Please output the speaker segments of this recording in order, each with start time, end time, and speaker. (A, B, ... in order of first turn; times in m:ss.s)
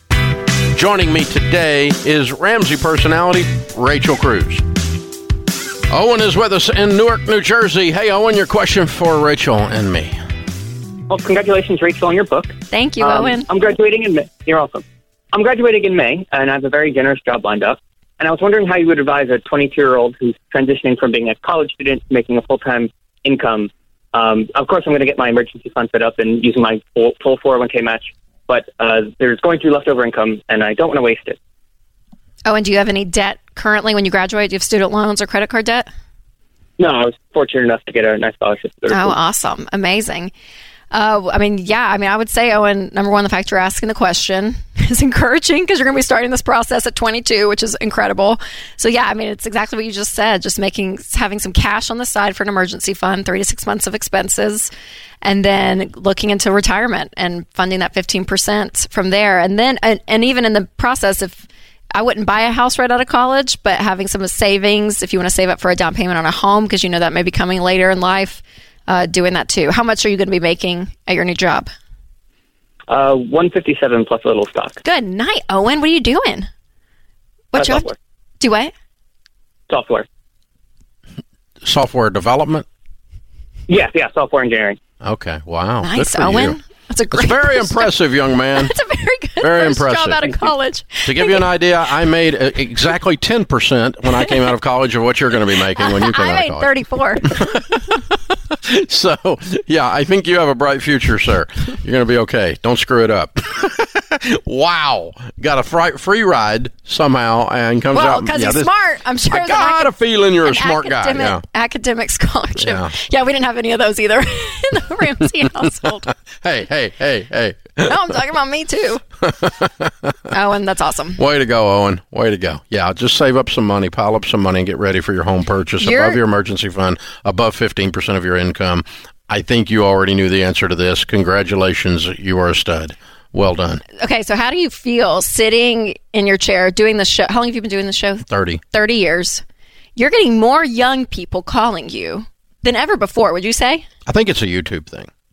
0:00.7-0:04.6 A
0:05.9-0:10.1 A
0:11.1-0:31.4 B
0:12.7-0:13.5 C
0:32.4-0:35.9 C
0:36.8-0:39.2 B
0:38.9-0:40.3 C
0:40.9-0:54.7 C
0:55.2-1:11.7 C
1:12.9-1:14.8 B
1:14.8-1:16.5 C
1:17.5-1:17.9 C
1:17.5-1:18.0 B
1:18.4-1:18.7 C
1:19.7-1:20.1 B
1:21.6-1:22.6 A
1:23.7-1:24.8 B
1:25.0-1:26.6 A
1:25.8-1:27.9 C
1:27.1-1:28.7 A
1:28.5-1:31.5 C
1:29.4-1:36.7 A
1:34.2-1:34.5 C
1:35.7-1:37.6 C
1:37.2-1:48.7 A
1:47.9-1:56.1 C
1:49.3-1:51.4 A
1:52.6-1:52.9 A
1:56.4-1:58.2 A
1:57.8-1:59.0 C
1:59.2-2:00.2 A
2:00.3-2:01.2 C
2:01.2-2:13.8 A
2:05.8-2:06.2 C
2:14.0-2:19.4 C
2:18.3-2:18.6 A
2:20.0-2:23.8 C
2:24.0-2:25.1 A